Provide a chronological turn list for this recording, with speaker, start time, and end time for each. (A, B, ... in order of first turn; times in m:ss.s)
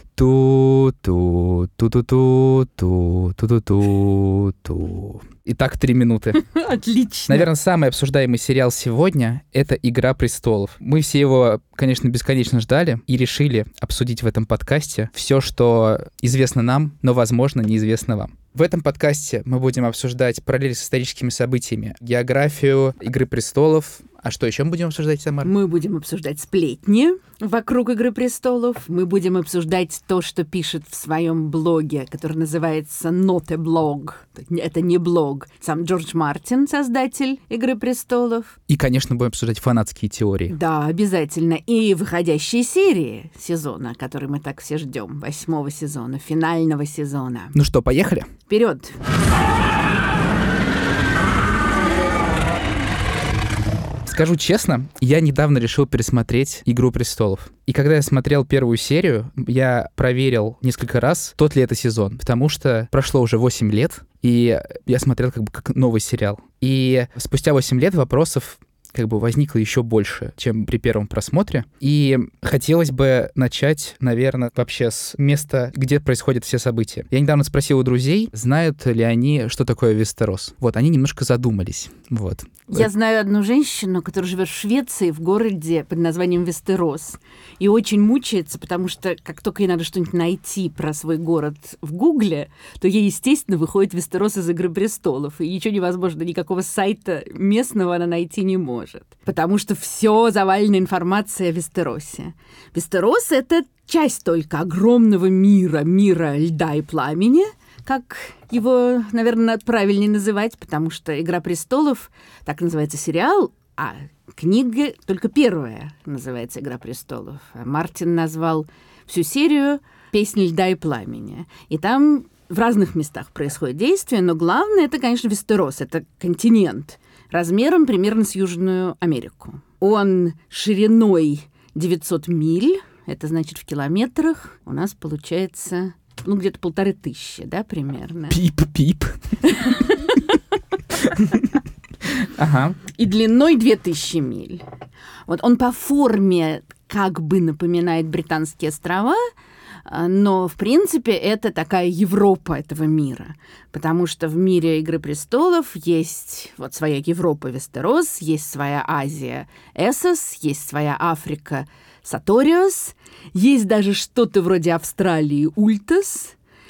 0:00.2-0:06.4 A
0:06.4-0:07.5 B
0:07.3-0:25.5 A
0:25.4-0:38.6 B
0:38.7-0:40.6 A
0:40.5-0:47.6 B
0:47.5-0:48.3 A
0:48.5-0:49.0 B
0:54.1-1:22.9 A
1:22.7-2:18.4 B
2:18.3-2:19.4 A
2:19.5-2:20.2 B
2:21.0-2:21.4 A
2:22.2-2:22.8 A
2:22.9-2:24.6 B
2:25.3-2:29.2 B
2:29.9-2:46.4 B